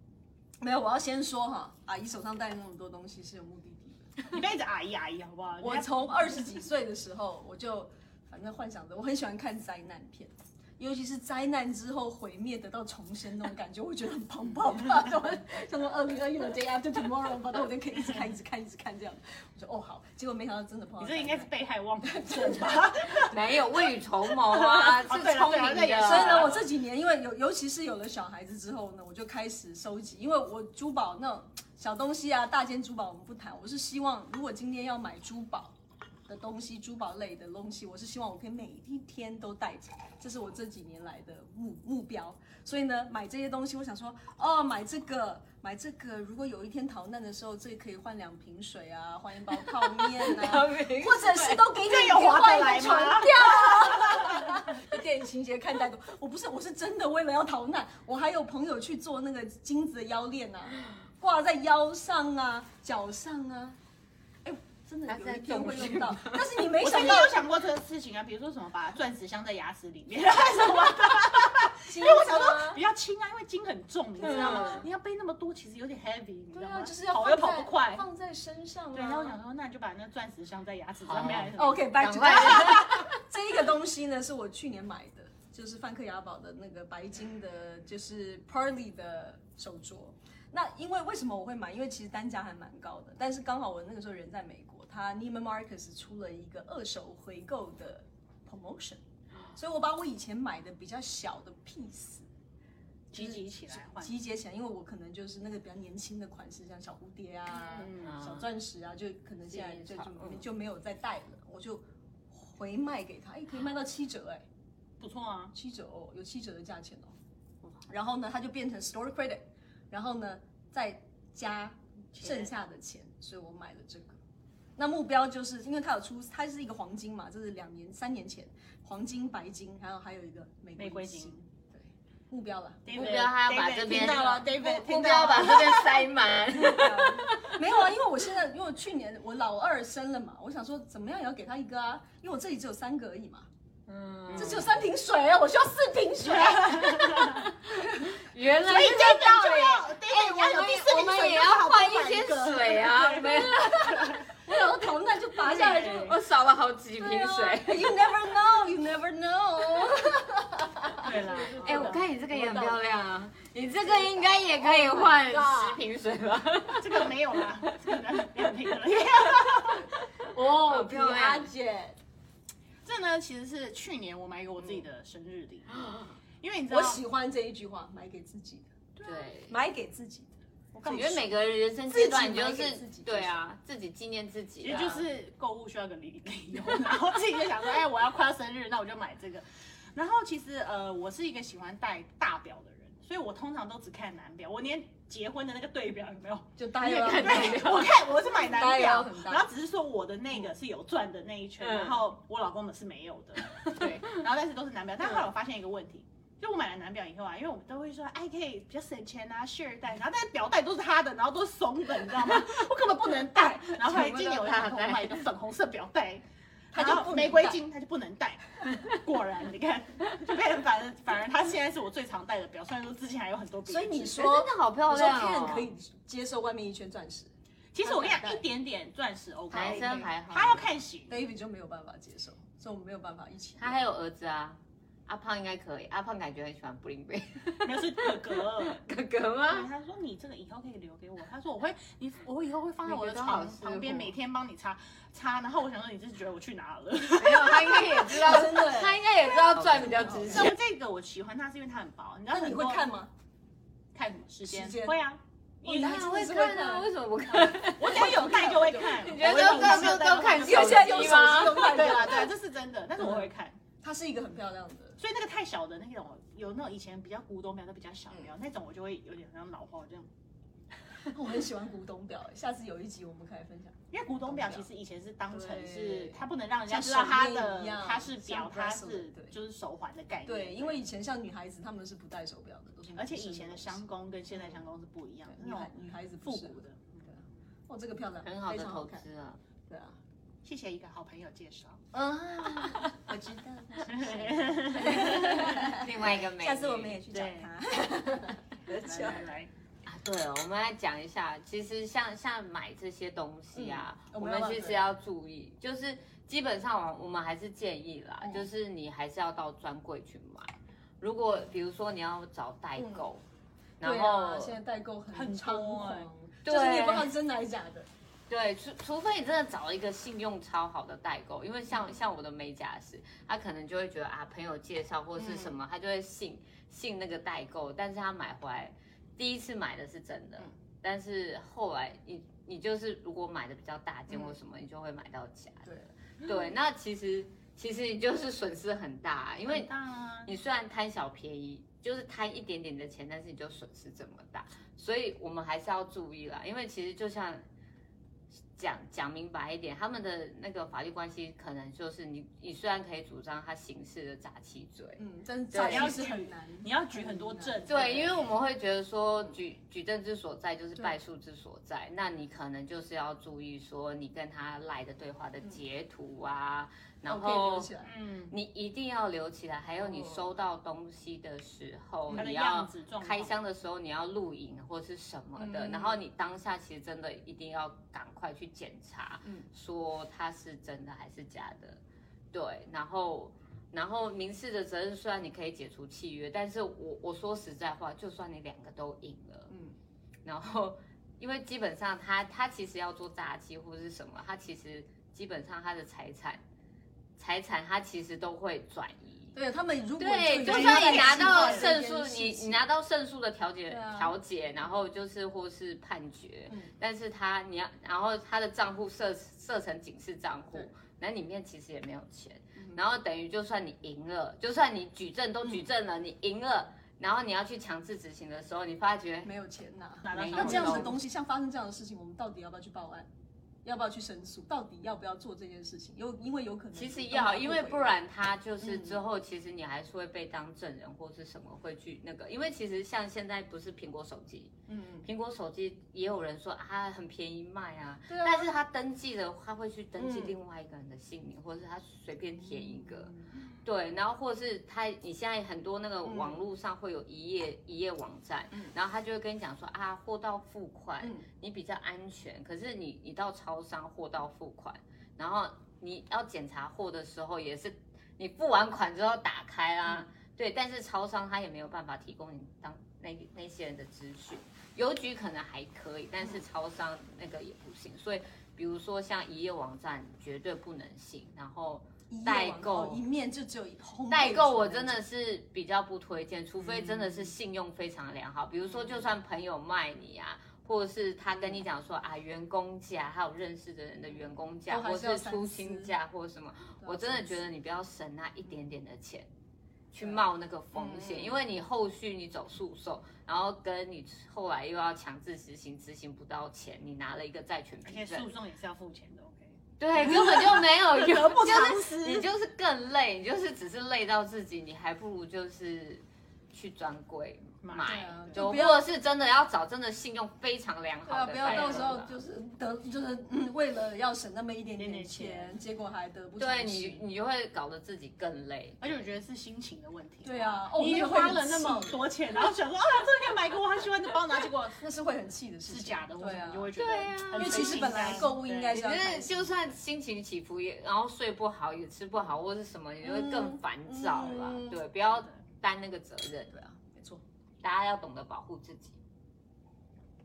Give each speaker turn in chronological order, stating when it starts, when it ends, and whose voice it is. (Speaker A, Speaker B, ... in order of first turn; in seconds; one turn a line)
Speaker A: 0.6-4.4
Speaker B: 4.3-6.3
Speaker A: 5.6-23.2
Speaker B: 21.0-23.4
Speaker C: 23.3-26.6
Speaker B: 24.5-26.7
Speaker A: 26.0-35.7
Speaker A: 36.3-63.8
Speaker C: 49.5-51.8
Speaker B: 51.8-54.2
Speaker A: 64.4-67.4
Speaker C: 65.0-66.6
Speaker B: 66.8-78.0
Speaker A: 71.9-72.8
Speaker A: 74.2-74.9
Speaker C: 74.2-74.8
Speaker A: 76.5-79.4
Speaker B: 78.9-82.8
Speaker C: 81.0-83.1
Speaker A: 81.5-99.0
Speaker A: 99.5-102.2
Speaker B: 103.1-104.2
Speaker A: 103.1-114.4
Speaker B: 107.5-108.1
Speaker C: 108.0-108.5
Speaker C: 109.5-110.4
Speaker B: 115.0-115.5
Speaker A: 115.5-117.1
Speaker A: 117.9-124.2
Speaker B: 122.2-122.5
Speaker A: 124.8-133.1
Speaker B: 130.8-131.4
Speaker B: 132.8-136.1
Speaker C: 132.9-137.5
Speaker A: 134.1-134.5
Speaker A: 136.5-143.5
Speaker C: 143.9-144.7
Speaker B: 144.3-144.7
Speaker A: 144.3-148.2
Speaker B: 146.3-147.4
Speaker C: 148.2-154.2
Speaker B: 148.6-154.2
Speaker A: 153.2-156.2
Speaker B: 155.4-156.2
Speaker C: 155.4-157.9
Speaker A: 157.0-162.9
Speaker B: 161.0-162.1
Speaker C: 161.4-167.8
Speaker A: 164.6-165.8
Speaker B: 166.8-169.9
Speaker C: 170.1-171.5
Speaker A: 170.3-172.0
Speaker B: 172.8-175.7
Speaker C: 175.7-176.1
Speaker B: 176.4-177.0
Speaker A: 176.7-178.7
Speaker B: 178.9-179.3
Speaker C: 179.0-179.5
Speaker A: 179.5-180.3
Speaker B: 180.7-181.3
Speaker C: 180.8-185.1
Speaker A: 180.8-183.4
Speaker B: 184.6-224.2
Speaker A: 196.6-199.5
Speaker C: 196.8-198.0
Speaker C: 201.6-202.0
Speaker C: 203.6-204.2
Speaker C: 213.7-215.2
Speaker A: 216.7-217.6
Speaker A: 223.7-228.4
Speaker C: 224.1-225.7
Speaker B: 227.7-231.2
Speaker A: 229.5-230.1
Speaker C: 229.5-230.7
Speaker A: 231.1-233.8
Speaker C: 233.6-239.7
Speaker B: 237.6-238.8
Speaker B: 239.5-248.4
Speaker C: 242.8-244.1
Speaker C: 247.2-250.6
Speaker A: 248.0-250.5
Speaker B: 249.3-252.9
Speaker A: 252.3-253.1
Speaker B: 253.9-256.0
Speaker A: 254.5-255.0
Speaker A: 255.7-262.3
Speaker C: 255.7-258.1
Speaker B: 257.3-263.6
Speaker C: 258.8-262.2
Speaker A: 263.0-263.3
Speaker A: 263.8-265.0
Speaker B: 265.0-270.1
Speaker A: 271.0-274.7
Speaker B: 273.9-280.8
Speaker A: 275.3-279.3
Speaker A: 280.2-283.8
Speaker B: 282.9-287.0
Speaker A: 285.3-289.0
Speaker C: 288.2-289.4
Speaker A: 289.7-290.0
Speaker B: 290.4-291.8
Speaker A: 291.9-299.3
Speaker C: 292.4-292.8
Speaker B: 293.9-295.5
Speaker C: 294.8-297.0
Speaker B: 297.1-297.5
Speaker B: 298.8-299.5
Speaker C: 299.9-313.2
Speaker A: 303.5-304.9
Speaker A: 308.2-308.5
Speaker A: 312.8-313.1
Speaker C: 313.8-314.6
Speaker A: 313.8-317.9
Speaker B: 315.1-316.1
Speaker C: 316.4-317.1
Speaker C: 318.3-339.7
Speaker A: 325.1-325.5
Speaker A: 335.7-335.9
Speaker B: 339.4-340.4
Speaker C: 340.2-347.4
Speaker C: 348.6-355.9
Speaker A: 355.0-357.7
Speaker B: 355.6-358.4
Speaker C: 357.6-367.7
Speaker A: 367.0-367.9
Speaker B: 367.8-368.4
Speaker C: 368.3-381.8
Speaker A: 369.8-370.3
Speaker B: 372.1-373.4
Speaker A: 375.4-376.0
Speaker A: 379.2-379.5
Speaker C: 382.3-389.5
Speaker A: 389.5-389.7
Speaker C: 390.2-396.4
Speaker C: 397.2-399.4
Speaker A: 399.3-402.6
Speaker C: 400.0-419.3
Speaker B: 400.4-401.7
Speaker A: 403.7-404.2
Speaker A: 406.5-406.7
Speaker A: 412.6-412.8
Speaker A: 419.2-423.1
Speaker B: 420.0-420.9
Speaker C: 420.1-420.9
Speaker A: 423.6-427.9
Speaker C: 426.7-473.0
Speaker A: 428.6-429.0
Speaker A: 434.7-435.1
Speaker A: 438.1-438.5
Speaker A: 439.9-440.4
Speaker A: 442.5-443.4
Speaker A: 446.0-446.5
Speaker A: 451.0-451.3
Speaker A: 472.1-475.0
Speaker C: 474.1-489.3
Speaker B: 476.6-477.3
Speaker A: 481.3-481.6
Speaker A: 484.1-486.0
Speaker A: 486.8-487.4
Speaker C: 489.9-498.3
Speaker A: 490.0-491.4
Speaker B: 497.8-502.3
Speaker C: 499.8-512.1
Speaker A: 500.0-500.4
Speaker B: 507.6-508.6
Speaker A: 507.8-508.9
Speaker A: 511.1-517.0
Speaker B: 511.4-512.0
Speaker B: 514.8-515.6
Speaker C: 516.4-519.1
Speaker B: 518.8-524.8
Speaker A: 520.2-522.0
Speaker A: 524.8-526.7
Speaker B: 525.6-528.8
Speaker C: 526.7-536.5
Speaker A: 527.3-529.6
Speaker A: 533.0-534.8
Speaker A: 536.5-537.2
Speaker C: 537.6-539.0